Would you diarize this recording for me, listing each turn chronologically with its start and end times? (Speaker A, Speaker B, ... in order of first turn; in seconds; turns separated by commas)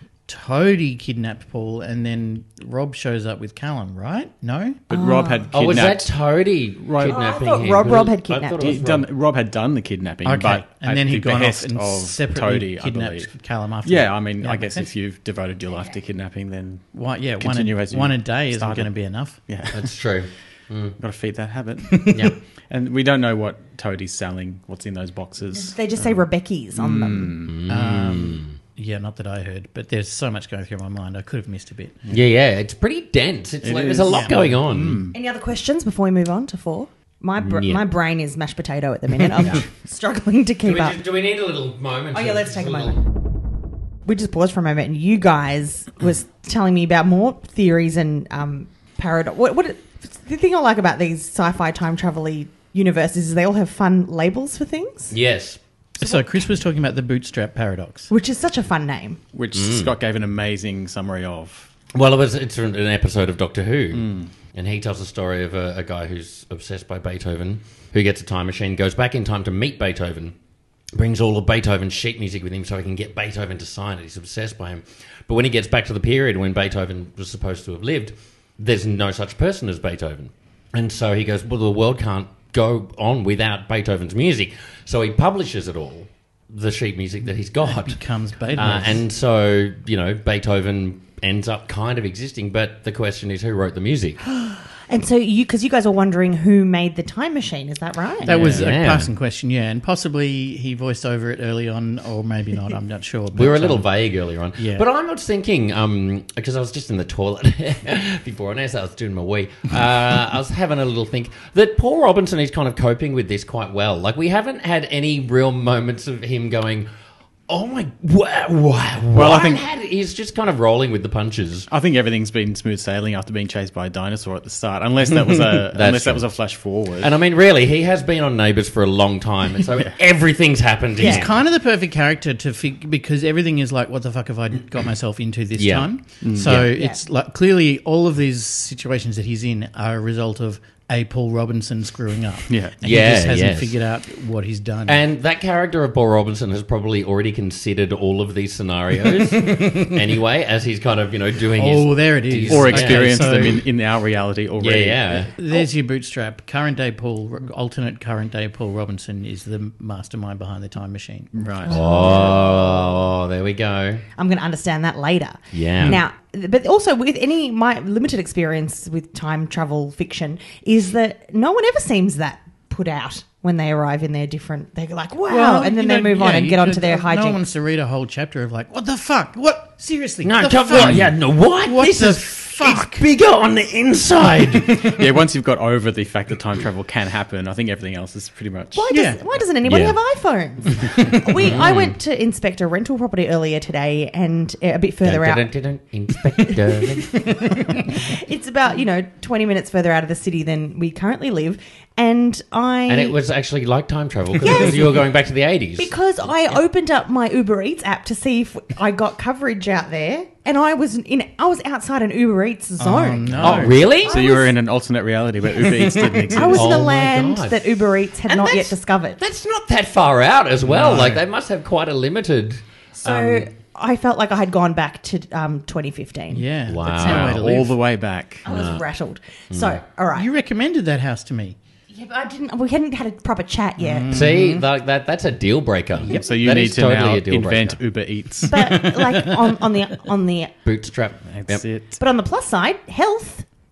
Speaker A: 0.3-4.8, Speaker B: 4.9-6.1, Speaker C: 4.9-5.5, Speaker D: 5.5-9.1, Speaker B: 6.8-7.3, Speaker C: 7.0-8.8, Speaker B: 8.6-13.3, Speaker A: 10.2-14.9, Speaker B: 13.8-18.9, Speaker A: 16.9-19.4, Speaker B: 19.4-19.9, Speaker D: 19.7-21.0, Speaker B: 21.0-27.6, Speaker C: 25.6-27.4, Speaker D: 27.5-28.6, Speaker A: 27.6-32.0, Speaker D: 32.1-35.0, Speaker B: 33.6-35.1, Speaker C: 35.1-41.0, Speaker D: 37.4-37.8, Speaker D: 39.4-39.6, Speaker D: 40.6-43.0, Speaker C: 42.1-43.0, Speaker C: 44.1-55.2, Speaker D: 55.1-55.6, Speaker A: 56.0-58.1, Speaker C: 58.1-59.2, Speaker B: 59.3-61.7, Speaker D: 59.5-59.9, Speaker D: 61.9-70.3, Speaker B: 63.9-64.3, Speaker D: 70.9-94.2, Speaker A: 87.7-89.0, Speaker C: 94.2-98.4, Speaker A: 98.2-103.9, Speaker D: 98.3-99.1, Speaker B: 98.3-98.7, Speaker D: 103.3-116.9, Speaker A: 104.6-104.9, Speaker D: 117.5-121.7, Speaker B: 119.1-119.7, Speaker B: 121.7-127.1, Speaker D: 125.7-131.3, Speaker A: 131.0-145.0, Speaker C: 131.0-131.3, Speaker D: 135.6-136.7, Speaker B: 136.2-136.6, Speaker C: 136.7-137.0, Speaker B: 142.5-142.8, Speaker D: 142.8-143.8, Speaker D: 144.9-153.3, Speaker A: 151.6-153.6, Speaker B: 152.5-155.3, Speaker D: 154.6-155.3, Speaker A: 155.4-162.5, Speaker B: 161.3-162.4, Speaker C: 161.7-162.0, Speaker D: 161.7-164.1, Speaker C: 164.2-177.4, Speaker D: 165.5-166.0, Speaker A: 175.3-183.1, Speaker D: 180.2-184.9, Speaker B: 184.8-188.8, Speaker C: 188.7-195.5, Speaker A: 188.9-189.2, Speaker D: 189.6-190.0, Speaker D: 191.4-192.0, Speaker D: 195.0-197.5, Speaker C: 197.1-203.2, Speaker D: 202.9-206.0, Speaker C: 204.4-205.0, Speaker C: 205.8-214.5, Speaker A: 212.8-213.8, Speaker B: 213.3-216.9, Speaker D: 213.4-214.2, Speaker C: 216.3-219.2, Speaker D: 216.4-223.5, Speaker A: 220.7-221.2, Speaker C: 223.0-226.5, Speaker A: 226.3-227.7, Speaker D: 226.7-227.6, Speaker B: 227.0-228.5, Speaker D: 228.4-228.8, Speaker C: 228.4-230.3, Speaker D: 229.5-229.8, Speaker A: 230.1-231.6, Speaker C: 231.9-234.1, Speaker A: 233.8-234.7, Speaker D: 234.1-237.8, Speaker B: 236.0-239.2, Speaker C: 238.5-240.5, Speaker D: 240.7-241.7, Speaker B: 241.3-242.0, Speaker C: 242.0-243.4